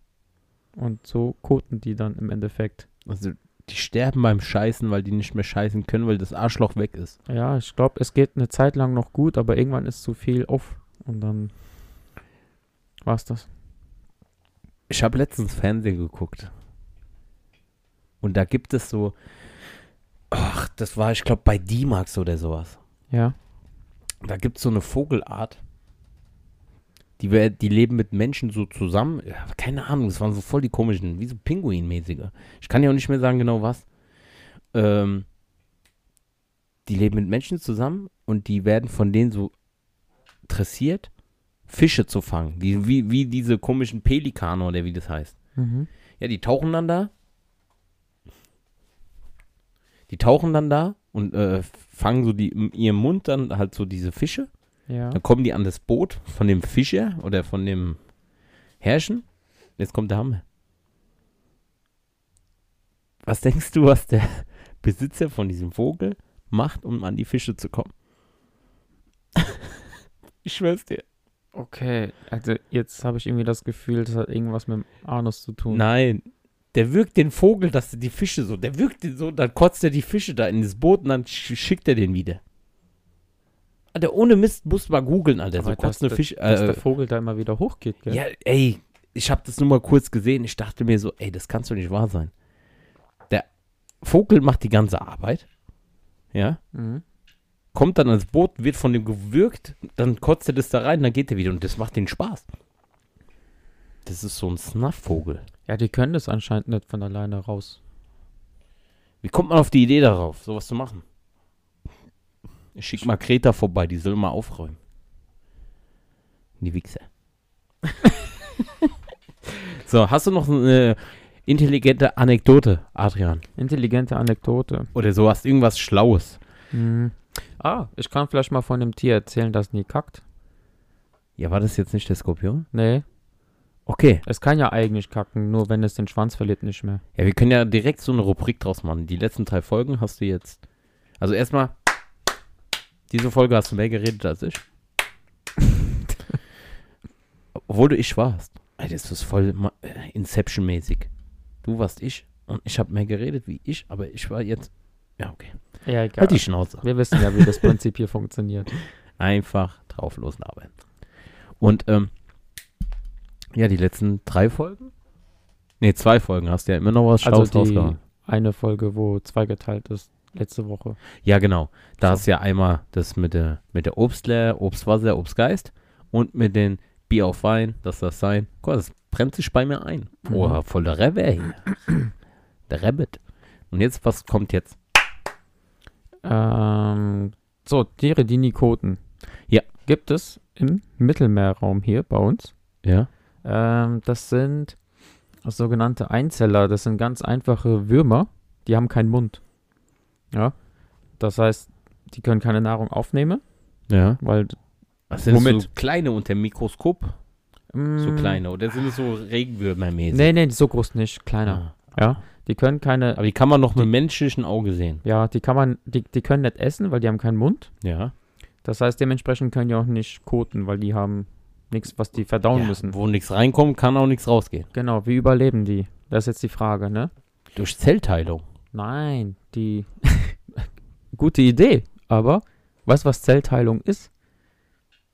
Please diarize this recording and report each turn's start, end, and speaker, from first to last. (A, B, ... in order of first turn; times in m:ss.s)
0:00.8-0:02.9 A
0:03.1-0:07.2 B
0:07.3-0:11.5 A
0:13.0-0:13.5 A
0:14.9-0:16.5 B
0:18.2-0:19.2 B
0:20.3-0:22.8 B
0:23.1-0:23.4 A
0:24.2-0:25.6 B
0:27.2-0:33.9 B
0:34.7-0:35.3 B
0:36.9-0:39.5 B
0:40.5-0:41.1 B
0:41.7-0:45.4 B
0:45.6-0:45.9 A
0:46.2-0:47.1 B
0:50.1-0:54.5 B
0:54.9-0:55.2 A
0:55.1-0:58.0 B
0:58.8-0:59.3 B
0:59.8-1:00.4 B
1:03.3-1:07.9 B
1:09.4-1:09.7 B
1:10.4-1:11.0 B
1:11.6-1:15.8 A
1:15.7-1:22.4 B
1:23.9-1:26.8 B
1:25.6-1:28.2 A
1:28.1-1:32.3 B
1:34.0-1:35.5 B
1:36.3-1:36.6 B
1:36.7-1:37.0 A
1:37.7-1:42.4 B
1:44.0-1:45.4 B
1:45.7-1:47.8 A
1:49.2-1:51.0 B
1:52.8-1:54.8 B
1:56.6-1:57.1 B
1:59.5-2:03.4 B
2:03.6-2:04.9 A
2:04.9-2:06.4 B
2:06.7-2:10.2 A
2:11.4-2:12.7 B
2:12.7-2:13.0 A
2:13.9-2:14.2 B
2:14.3-2:17.0 A
2:17.2-2:20.6 B
2:21.2-2:21.8 B
2:23.1-2:24.6 B
2:27.6-2:31.1 B
2:31.6-2:37.7 B
2:35.8-2:38.7 A
2:39.2-2:40.7 B
2:41.6-2:42.1 B
2:43.6-2:44.9 B
2:45.8-2:48.0 B
2:47.2-2:51.0 A
2:51.2-3:01.7 B
3:00.3-3:00.6 A
3:02.7-3:03.2 B
3:03.7-3:04.8 B
3:06.2-3:09.0 A
3:09.8-3:12.5 A
3:12.8-3:13.1 B
3:13.4-3:14.8 A
3:15.4-3:19.4 A
3:21.2-3:23.4 A
3:23.9-3:24.2 B
3:24.2-3:24.6 A
3:25.1-3:27.2 B
3:25.2-3:25.7 A
3:27.7-3:28.4 A
3:28.0-3:30.3 B
3:30.1-3:33.2 A
3:31.5-3:31.7 B
3:33.2-3:35.0 B
3:35.0-3:37.7 A
3:37.8-3:38.1 B
3:38.6-3:43.0 A
3:42.5-3:44.7 B
3:44.7-3:47.1 A
3:47.6-3:48.4 B
3:48.7-3:50.4 A
3:51.1-3:54.1 A